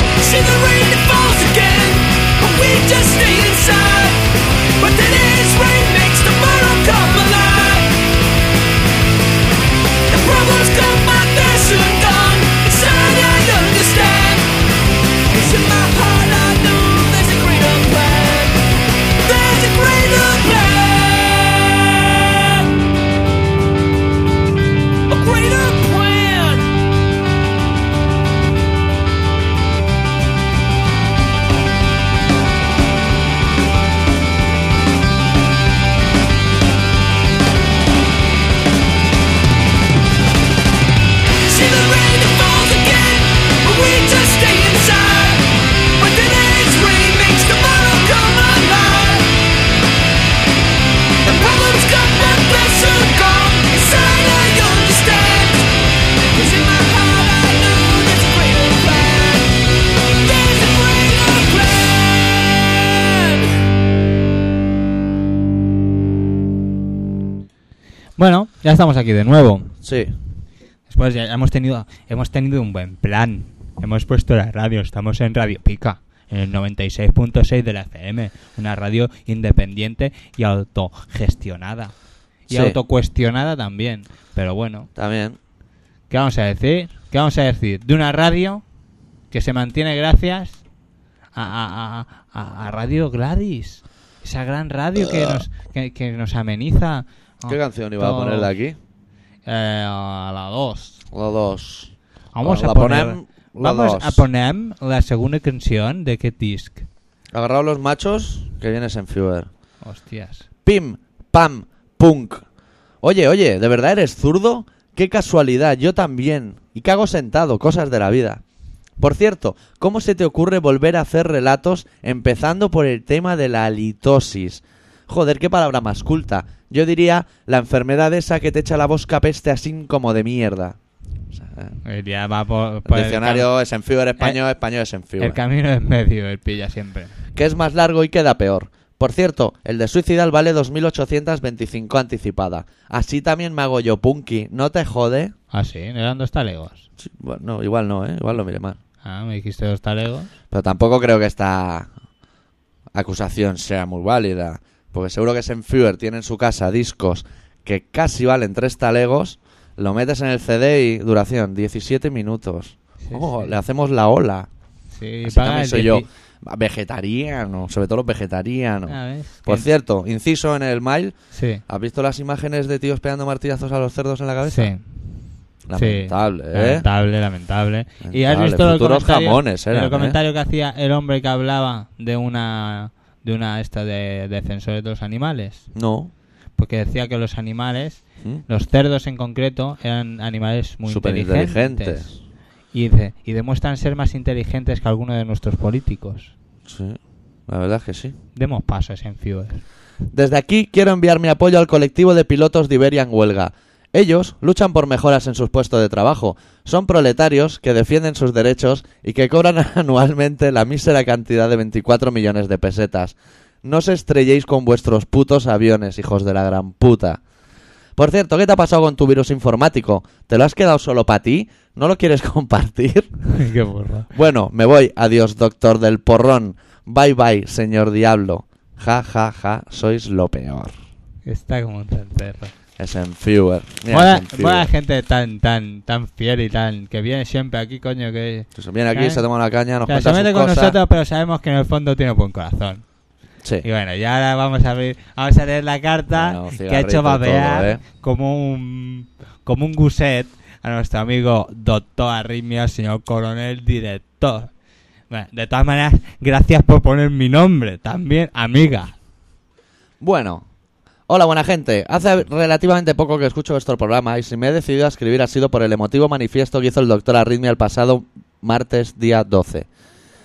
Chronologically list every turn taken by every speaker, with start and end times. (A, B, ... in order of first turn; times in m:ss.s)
0:00.2-0:04.2 A
0:04.8-0:07.9 A
0:10.1-0:14.5 A
0:15.3-0:18.6 A
0:19.2-0:22.7 A
0:25.1-0:26.7 A
0:41.4-0:49.3 A
0:51.2-1:03.6 A
1:08.2-1:09.7 B
1:09.8-1:10.1 C
1:10.9-1:21.9 B
1:22.5-1:24.9 B
1:22.5-1:22.8 C
1:25.0-1:25.4 C
1:26.1-1:28.6 B
1:29.3-1:30.6 B
1:31.4-1:38.5 B
1:35.0-1:35.4 C
1:37.5-1:38.8 C
1:39.5-1:41.0 B
1:41.1-1:44.3 C
1:42.3-1:46.9 B
1:47.3-1:49.5 C
1:49.8-1:50.5 B
1:50.7-1:52.4 C
1:53.0-1:58.4 C
1:59.0-2:10.8 C
2:11.3-2:11.8 C
2:11.8-2:13.5 B
2:12.9-2:15.4 C
2:15.2-2:17.2 B
2:17.4-2:25.3 C
2:25.5-2:26.9 B
2:27.0-2:28.8 C
2:29.0-2:30.3 B
2:30.5-2:31.9 C
2:32.9-2:44.5 C
2:43.0-2:43.5 B
2:44.9-2:46.1 B
2:45.2-2:51.2 C
2:48.9-2:49.7 B
2:51.3-2:51.6 B
2:51.7-2:54.7 C
2:54.4-2:54.8 B
2:55.7-2:56.9 C
2:55.8-3:05.7 B
2:58.0-3:00.2 C
3:05.7-3:06.1 C
3:06.6-3:12.2 B
3:10.9-3:12.1 C
3:12.7-3:16.3 B
3:16.7-3:18.2 C
3:18.4-3:19.6 B
3:20.1-3:37.2 C
3:38.0-3:43.2 C
3:43.3-3:44.1 B
3:44.1-3:50.7 C
3:51.3-3:52.5 B
3:52.8-3:54.7 C
3:53.9-3:59.2 B
3:58.6-4:00.8 C
3:59.9-4:02.8 B
4:03.6-4:14.5 B
4:06.1-4:07.8 C
4:15.1-4:19.0 B
4:20.0-4:20.5 C
4:21.1-4:29.7 C